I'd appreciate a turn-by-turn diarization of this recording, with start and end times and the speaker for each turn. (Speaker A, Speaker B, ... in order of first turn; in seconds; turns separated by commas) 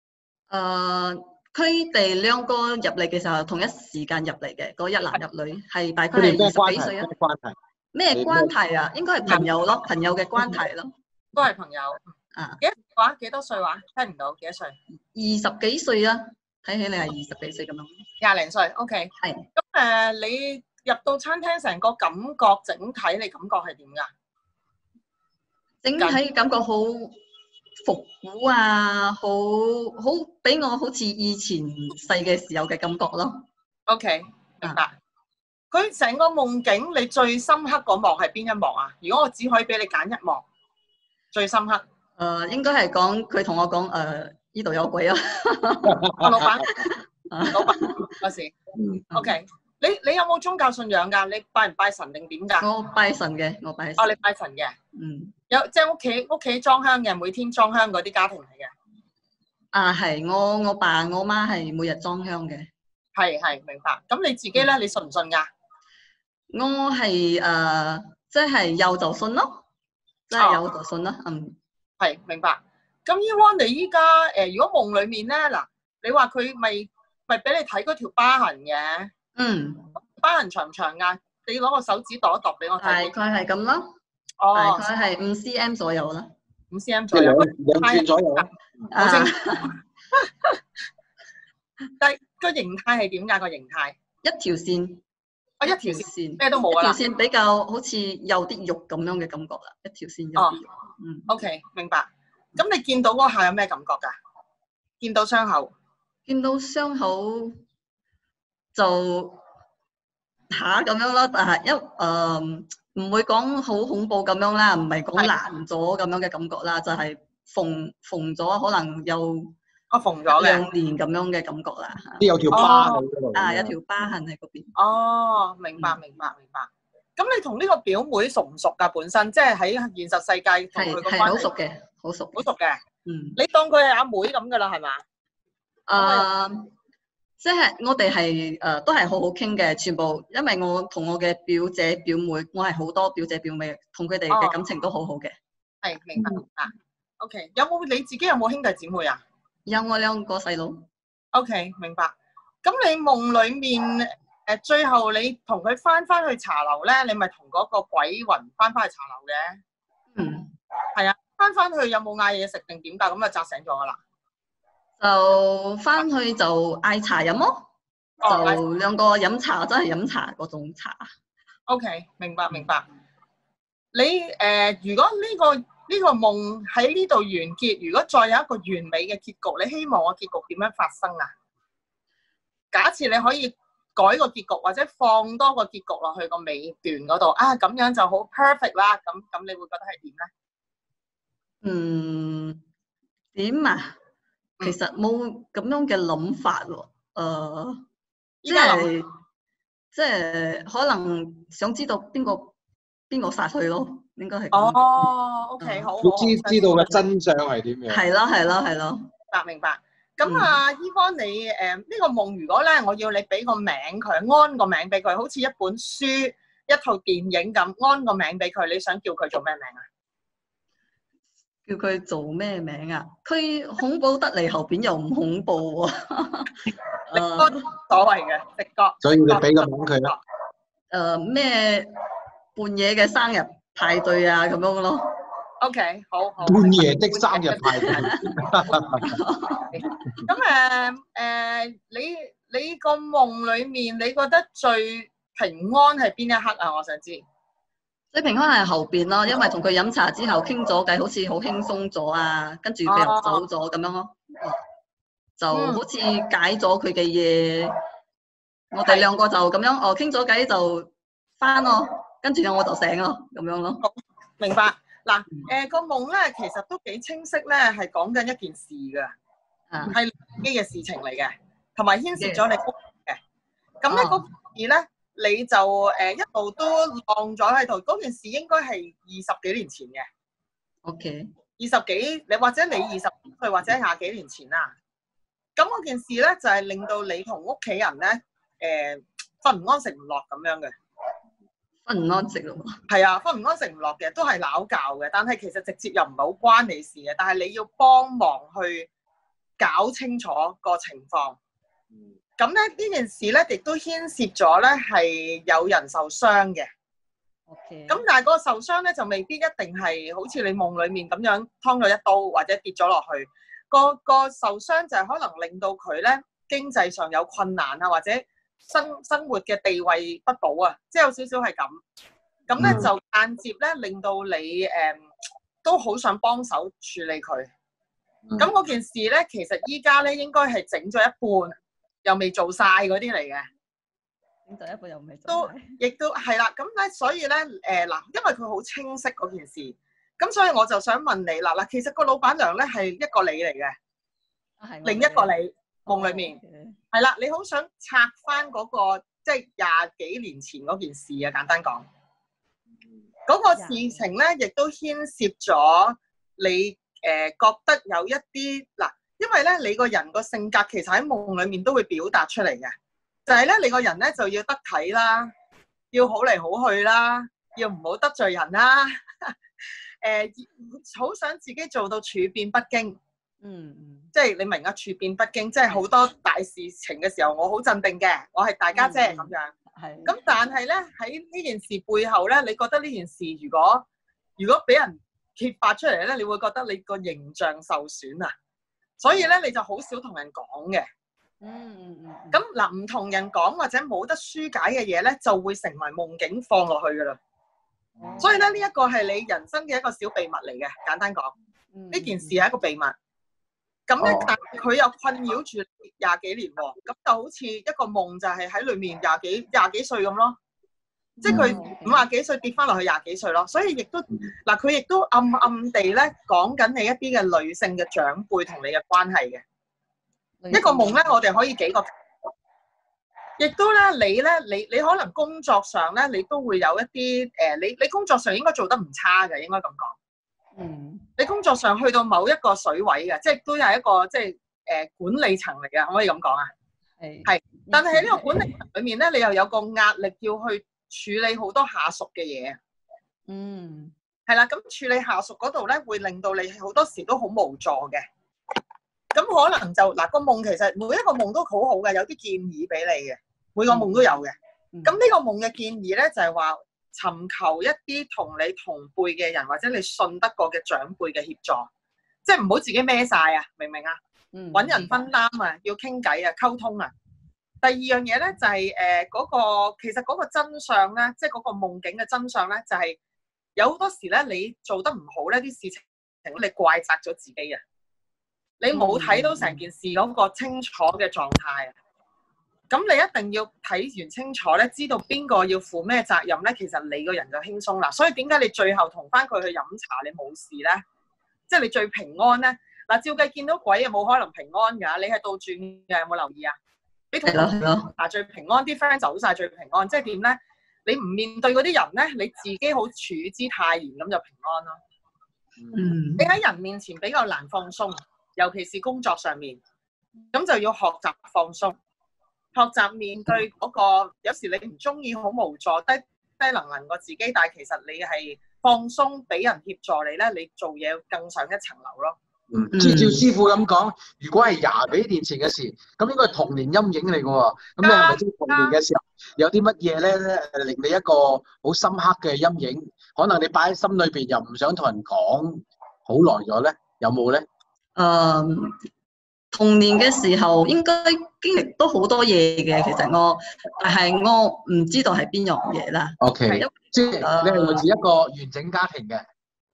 Speaker A: 0.5-7.1, Speaker B: 6.1-7.6, Speaker A: 7.9-10.9, Speaker B: 8.1-8.5, Speaker C: 11.3-12.0, Speaker C: 12.6-14.8, Speaker A: 15.1-18.0, Speaker C: 18.2-24.1, Speaker A: 19.2-19.5, Speaker A: 25.8-27.2, Speaker A: 27.8-33.4, Speaker C: 33.9-34.9, Speaker C: 35.7-40.4, Speaker C: 41.3-41.8, Speaker A: 42.2-46.0, Speaker B: 45.9-46.5, Speaker C: 46.2-46.8, Speaker A: 46.7-48.1, Speaker C: 47.5-48.5, Speaker B: 48.7-49.0, Speaker A: 49.1-49.4, Speaker C: 49.1-52.7, Speaker A: 52.6-54.2, Speaker C: 54.0-54.8, Speaker A: 55.0-55.3, Speaker C: 55.5-58.7, Speaker A: 59.7-62.7, Speaker C: 63.2-65.5, Speaker A: 66.5-69.6, Speaker A: 70.3-71.6, Speaker C: 72.0-79.1, Speaker A: 79.4-79.9, Speaker C: 80.1-83.1, Speaker A: 82.8-83.9, Speaker C: 84.4-84.8, Speaker A: 84.5-86.3, Speaker C: 86.7-89.6, Speaker B: 87.1-88.5, Speaker A: 88.9-89.8, Speaker C: 92.0-94.0, Speaker A: 94.2-95.0, Speaker C: 95.6-97.0, Speaker A: 95.7-101.3, Speaker C: 101.3-104.2, Speaker C: 105.0-105.7, Speaker A: 106.3-107.6, Speaker A: 108.8-109.4, Speaker A: 110.5-119.5, Speaker C: 119.9-120.6, Speaker A: 120.3-124.7, Speaker B: 122.2-123.8, Speaker C: 122.5-123.0, Speaker C: 124.8-131.5, Speaker A: 130.8-132.4, Speaker C: 132.3-132.8, Speaker A: 133.1-133.4, Speaker C: 133.4-135.0, Speaker A: 135.9-136.7, Speaker C: 136.0-136.3, Speaker A: 137.4-145.3, Speaker C: 144.3-144.6, Speaker C: 145.8-149.2, Speaker A: 149.7-150.9, Speaker C: 151.3-159.6, Speaker A: 160.1-160.5, Speaker C: 160.9-164.0, Speaker A: 165.0-167.7, Speaker C: 168.2-168.6, Speaker A: 168.2-171.1, Speaker C: 171.7-172.8, Speaker C: 173.9-181.3, Speaker C: 182.7-190.3, Speaker A: 191.6-192.6, Speaker A: 193.3-194.0, Speaker A: 194.6-197.8, Speaker C: 198.4-198.9, Speaker A: 198.4-199.1, Speaker A: 199.9-202.5, Speaker A: 203.1-205.1, Speaker C: 204.5-207.1, Speaker A: 205.6-205.9, Speaker B: 206.0-208.0, Speaker A: 207.9-209.1, Speaker C: 209.3-219.8, Speaker A: 210.2-210.6, Speaker A: 221.7-226.6, Speaker A: 227.1-227.6, Speaker C: 227.1-230.2, Speaker B: 229.0-230.1, Speaker A: 230.9-231.9, Speaker A: 232.6-235.1, Speaker C: 235.6-238.2, Speaker B: 236.4-239.1, Speaker A: 237.8-238.3, Speaker A: 239.0-239.9, Speaker C: 239.7-247.2, Speaker A: 248.1-254.6, Speaker C: 252.9-253.4, Speaker A: 255.4-257.7, Speaker C: 255.5-255.8, Speaker A: 258.7-263.8, Speaker C: 263.8-269.1, Speaker A: 269.7-270.0, Speaker C: 269.9-273.2, Speaker A: 272.2-272.4, Speaker C: 273.8-280.1, Speaker A: 273.9-274.2, Speaker A: 280.9-281.3, Speaker C: 281.6-284.7, Speaker C: 285.6-290.7, Speaker A: 291.9-292.8, Speaker C: 292.9-298.9, Speaker C: 299.6-301.4, Speaker C: 302.4-306.7, Speaker A: 307.5-308.0, Speaker C: 307.9-321.8, Speaker C: 322.5-325.0, Speaker B: 322.6-322.9, Speaker C: 325.6-327.5, Speaker C: 328.4-333.5, Speaker A: 334.5-335.8, Speaker C: 335.3-343.8, Speaker A: 344.6-345.3, Speaker C: 344.9-346.4, Speaker A: 345.9-346.8, Speaker C: 346.9-351.9, Speaker C: 353.3-362.8, Speaker A: 353.5-354.1, Speaker C: 363.3-365.3, Speaker C: 365.9-369.4, Speaker C: 370.0-373.0, Speaker A: 373.4-374.1, Speaker C: 374.1-379.5, Speaker A: 378.7-380.2, Speaker C: 380.1-383.9, Speaker C: 384.4-388.3, Speaker C: 389.0-390.9, Speaker A: 391.4-392.4, Speaker C: 392.3-397.2, Speaker A: 398.0-398.6, Speaker C: 398.2-401.3, Speaker A: 401.7-402.4, Speaker C: 401.9-402.9, Speaker C: 403.9-410.4, Speaker B: 404.0-404.3, Speaker C: 411.2-419.4, Speaker A: 411.2-412.1, Speaker B: 411.3-411.5, Speaker A: 420.4-421.2, Speaker C: 420.5-421.9, Speaker C: 423.4-430.0, Speaker A: 430.6-431.1, Speaker C: 431.2-436.5, Speaker A: 437.0-438.5, Speaker C: 437.3-442.6, Speaker A: 443.3-443.9, Speaker C: 444.3-448.1, Speaker C: 449.1-461.7, Speaker A: 453.7-454.0, Speaker C: 462.2-464.0, Speaker A: 464.3-465.0, Speaker C: 464.5-466.9, Speaker C: 467.6-473.0, Speaker C: 473.6-477.6, Speaker C: 478.6-481.7, Speaker A: 478.7-479.6, Speaker C: 482.7-490.8, Speaker C: 491.5-496.6, Speaker C: 497.1-504.8, Speaker A: 497.2-497.9, Speaker B: 505.6-505.8, Speaker A: 505.7-506.3, Speaker C: 506.2-509.6, Speaker C: 510.3-511.8, Speaker C: 512.5-522.2, Speaker B: 522.5-537.5, Speaker A: 522.7-523.2, Speaker C: 527.8-528.8, Speaker A: 538.0-538.8, Speaker A: 539.5-547.9, Speaker B: 546.2-549.2